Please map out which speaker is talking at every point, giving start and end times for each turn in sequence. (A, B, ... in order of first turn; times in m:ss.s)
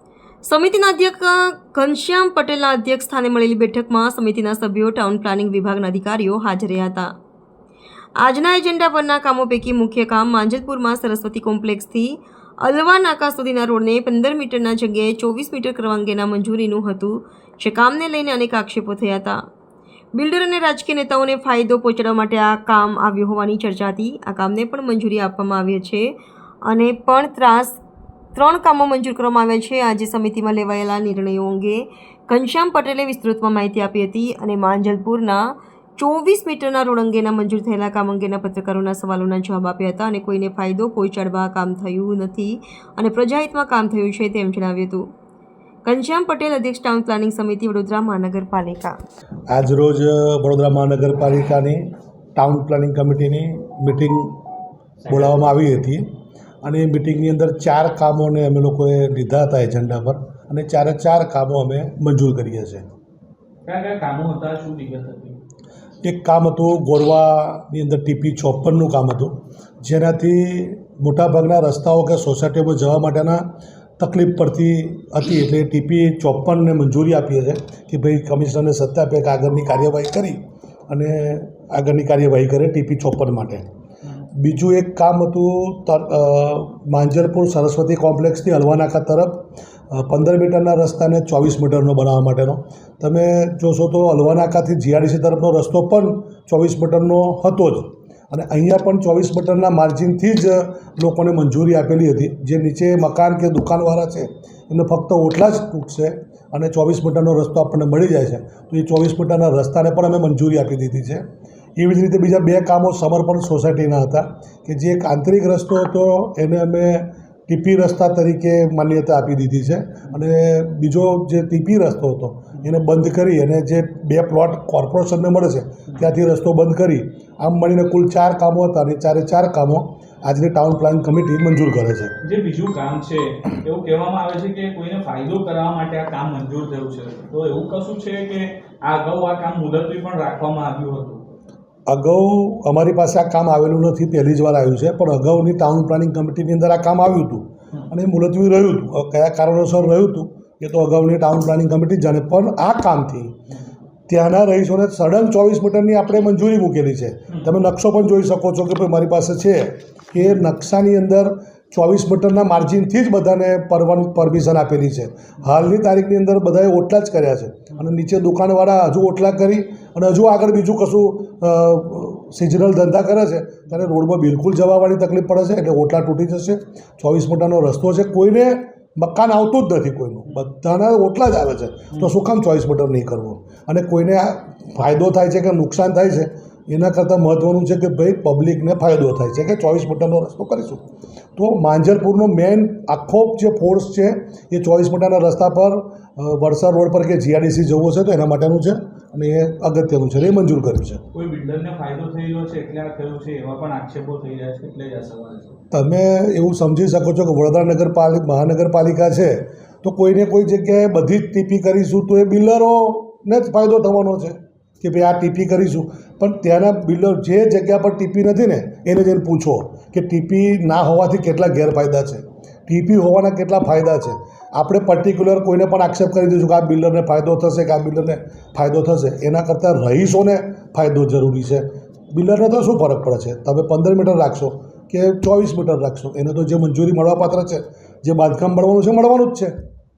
0:00.4-0:07.1 A
0:08.2-0:19.4 A
0:20.1-0:27.8 A
0:28.4-0:45.0 A
0:45.8-0:49.0 A
0:49.5-0:54.4 B
0:55.1-0:56.1 B
0:56.6-1:02.9 B
1:03.6-1:05.4 C
1:06.0-1:13.5 B
1:14.0-1:23.7 B
1:24.4-1:51.2 B
1:51.8-2:12.2 B
2:12.2-2:21.2 C
2:21.9-2:33.4 B
2:34.1-3:10.8 B
2:37.3-2:37.6 C
2:40.2-2:40.4 C
3:11.4-3:21.0 B
3:21.1-3:25.6 C
3:25.7-3:59.6 B